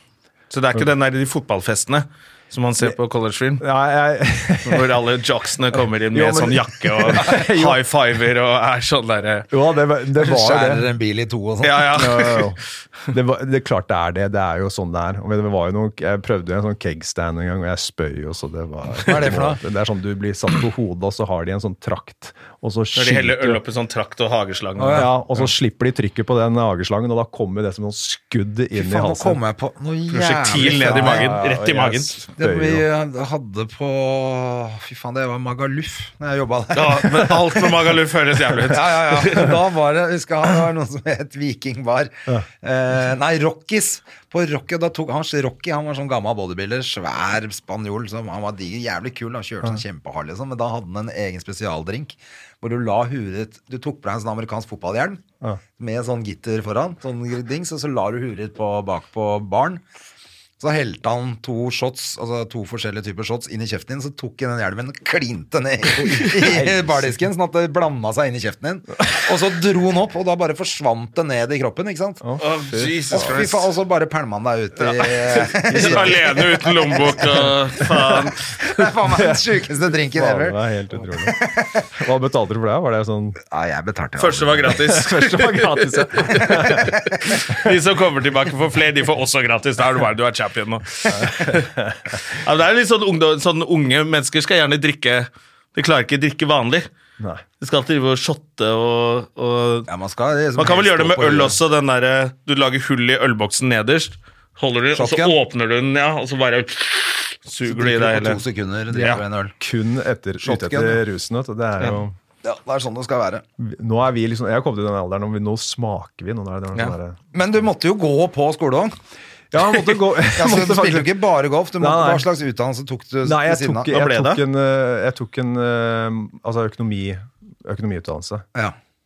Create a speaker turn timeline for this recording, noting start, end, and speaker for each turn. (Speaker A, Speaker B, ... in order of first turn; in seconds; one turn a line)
Speaker A: 0.5-3.6
Speaker B: 3.6-4.9
Speaker A: 4.7-9.5
Speaker B: 6.1-7.8
Speaker B: 9.5-10.8
Speaker C: 10.2-12.1
Speaker A: 11.6-12.5
Speaker B: 11.9-23.6
Speaker C: 19.0-19.6
Speaker A: 22.9-25.1
Speaker C: 24.8-25.1
Speaker B: 24.9-29.4
Speaker C: 28.7-31.4
Speaker A: 30.1-32.2
Speaker B: 30.6-32.9
Speaker C: 32.4-37.8
Speaker A: 36.7-39.5
Speaker C: 38.6-55.2
Speaker C: 55.8-59.8
Speaker C: 60.6-72.2
Speaker B: 66.4-67.1
Speaker B: 72.2-73.4
Speaker A: 72.4-73.7
Speaker C: 73.1-77.5
Speaker A: 74.9-78.7
Speaker B: 75.7-76.1
Speaker C: 78.5-81.9
Speaker B: 79.1-79.4
Speaker B: 80.1-83.4
Speaker C: 83.4-84.9
Speaker A: 84.2-96.9
Speaker B: 84.7-87.7
Speaker C: 86.2-87.3
Speaker B: 91.1-92.2
Speaker A: 97.6-99.9
Speaker C: 99.9-101.6
Speaker A: 100.6-108.4
Speaker C: 104.9-105.4
Speaker C: 107.7-109.5
Speaker A: 108.9-109.2
Speaker B: 109.6-112.1
Speaker C: 110.4-111.0
Speaker C: 112.4-113.4
Speaker B: 113.6-117.2
Speaker C: 117.3-118.9
Speaker B: 119.5-121.2
Speaker C: 120.2-123.9
Speaker B: 121.8-122.3
Speaker B: 123.2-128.4
Speaker A: 123.9-124.4